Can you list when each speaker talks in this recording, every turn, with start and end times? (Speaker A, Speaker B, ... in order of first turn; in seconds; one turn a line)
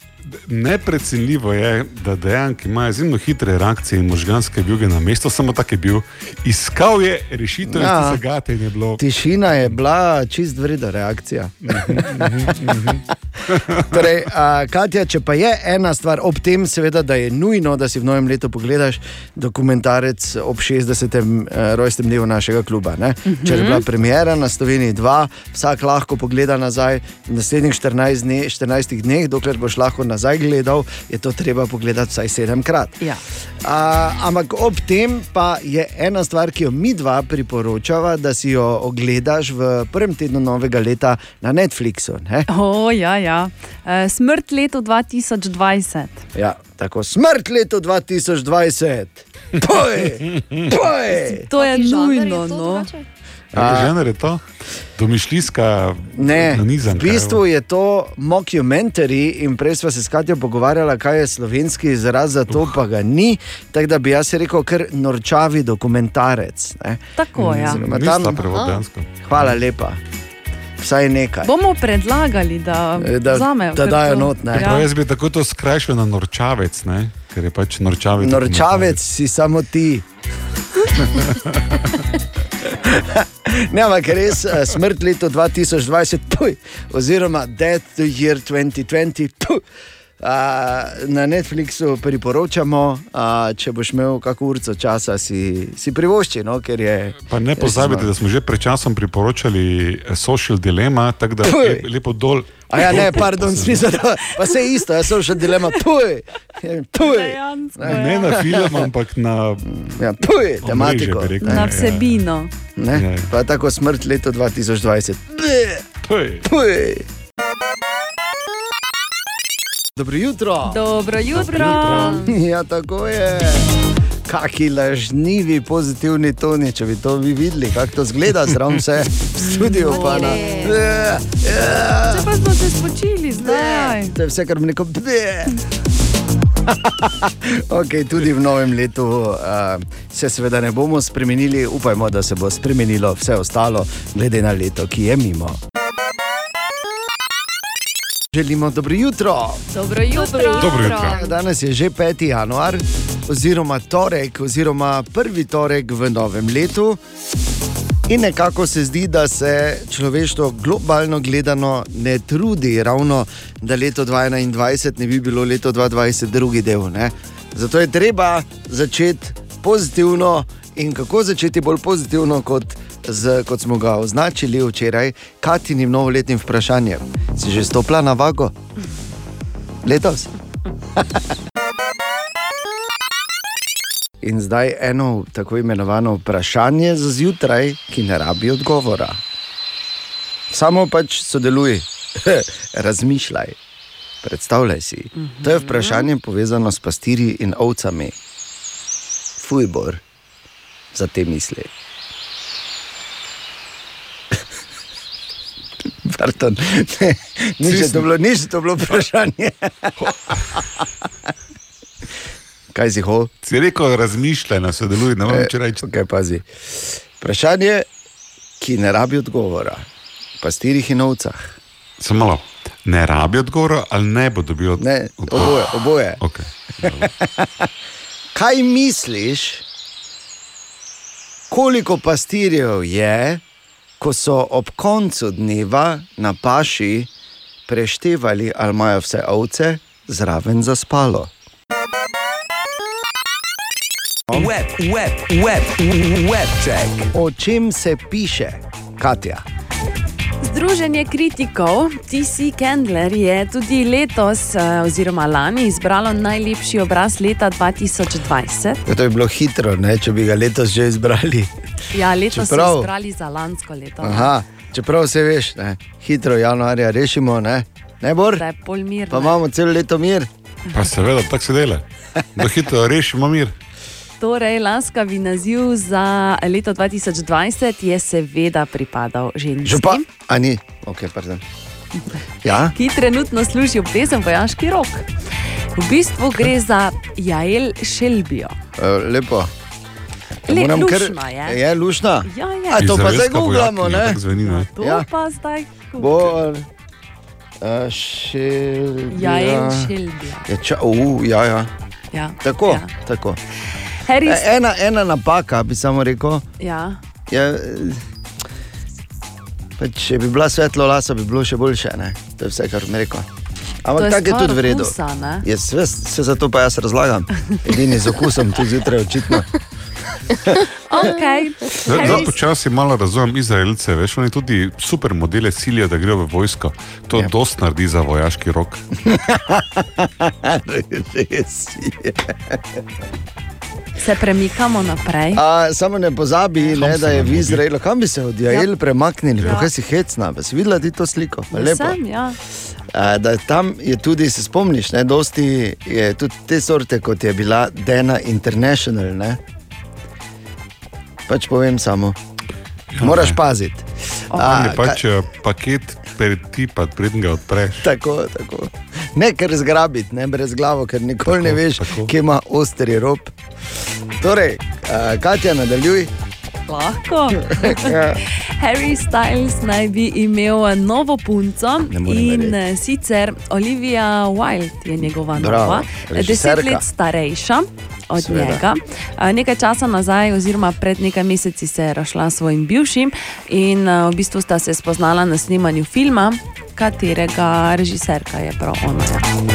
Speaker A: 0.3-9.0
Speaker B: 7.7-8.2
Speaker B: 9.0-12.8
Speaker A: 11.6-14.1
Speaker B: 13.9-33.0
Speaker C: 23.2-23.8
Speaker B: 33.6-42.5
Speaker C: 42.5-46.3
Speaker B: 46.3-51.4
Speaker C: 51.2-52.9
Speaker D: 51.5-53.0
Speaker B: 53.5-53.9
Speaker A: 53.5-54.4
Speaker A: 55.0-57.4
Speaker B: 56.1-68.4
Speaker C: 67.2-67.8
Speaker A: 67.4-69.5
Speaker D: 68.4-68.8
Speaker B: 69.2-70.0
Speaker B: 70.8-71.5
Speaker C: 71.4-74.9
Speaker B: 73.0-74.7
Speaker A: 74.5-79.0
Speaker B: 78.2-80.0
Speaker A: 81.1-81.5
Speaker B: 82.8-89.6
Speaker B: 90.2-98.1
Speaker A: 97.2-103.9
Speaker B: 101.4-101.8
Speaker B: 102.7-108.9
Speaker C: 107.0-108.4
Speaker A: 107.8-109.7
Speaker B: 109.6-111.8
Speaker A: 110.6-112.1
Speaker C: 111.4-112.5
Speaker B: 112.8-115.8
Speaker A: 112.9-113.3
Speaker A: 116.0-116.5
Speaker B: 116.4-117.0
Speaker B: 119.9-120.8
Speaker C: 120.7-122.3
Speaker A: 121.3-122.2
Speaker B: 121.6-123.7
Speaker B: 124.2-132.3
Speaker C: 129.4-130.7
Speaker D: 129.8-130.8
Speaker C: 132.1-134.2
Speaker B: 133.4-135.6
Speaker B: 136.7-145.6
Speaker B: 148.3-149.6
Speaker C: 149.7-151.0
Speaker D: 150.1-151.3
Speaker A: 150.6-151.2
Speaker B: 151.1-157.0
Speaker B: 158.1-178.6
Speaker B: 179.8-180.3
Speaker B: 184.2-189.2
Speaker B: 190.5-193.6
Speaker B: 194.2-198.1
Speaker C: 195.2-196.1
Speaker B: 199.4-200.0
Speaker B: 200.9-201.7
Speaker B: 206.0-210.3
Speaker A: 207.6-208.1
Speaker A: 210.0-210.4
Speaker B: 212.7-213.3
Speaker A: 213.4-215.8
Speaker B: 215.3-217.9
Speaker B: 218.6-219.8
Speaker B: 220.4-221.6
Speaker A: 222.0-225.7
Speaker B: 224.8-226.2
Speaker A: 226.2-227.1
Speaker B: 227.0-227.7
Speaker B: 228.3-229.6
Speaker B: 231.5-233.4
Speaker B: 234.0-237.1
Speaker B: 237.7-241.3
Speaker E: 244.3-247.1
Speaker B: 247.1-249.4
Speaker C: 250.4-258.8
Speaker B: 258.9-261.5
Speaker C: 261.9-264.3
Speaker B: 262.3-262.9
Speaker B: 264.0-268.4
Speaker C: 268.3-269.4
Speaker B: 269.1-270.3
Speaker A: 270.7-271.8
Speaker A: 272.4-273.5
Speaker C: 274.2-280.0
Speaker B: 279.6-281.4
Speaker B: 282.4-282.7
Speaker C: 282.7-285.1
Speaker C: 285.8-288.6
Speaker B: 288.8-289.5
Speaker C: 290.5-291.6
Speaker B: 290.5-294.2
Speaker C: 292.2-292.9
Speaker A: 292.8-294.7
Speaker C: 294.4-296.3
Speaker B: 294.8-295.1
Speaker B: 296.0-296.7
Speaker B: 297.6-299.9
Speaker C: 299.1-300.5
Speaker B: 300.4-301.7
Speaker C: 302.1-302.9
Speaker B: 302.4-303.4
Speaker C: 304.0-304.5
Speaker B: 304.2-306.4
Speaker C: 306.6-307.0
Speaker B: 307.3-308.0
Speaker B: 309.8-313.3
Speaker B: 313.8-319.5
Speaker C: 313.9-315.4
Speaker C: 320.9-322.3
Speaker A: 321.9-328.8
Speaker B: 321.9-322.3
Speaker B: 329.1-332.8
Speaker C: 334.0-335.4
Speaker B: 335.3-342.0
Speaker A: 336.7-337.6
Speaker C: 341.5-342.4
Speaker B: 342.9-349.4
Speaker B: 351.3-352.2
Speaker A: 352.9-353.4
Speaker B: 353.0-355.0
Speaker A: 354.4-357.9
Speaker B: 357.8-363.3
Speaker A: 361.3-362.1
Speaker B: 364.2-366.1
Speaker C: 366.7-368.0
Speaker B: 367.6-368.2
Speaker C: 368.6-389.3
Speaker B: 371.9-372.6
Speaker B: 375.3-376.8
Speaker B: 378.2-378.6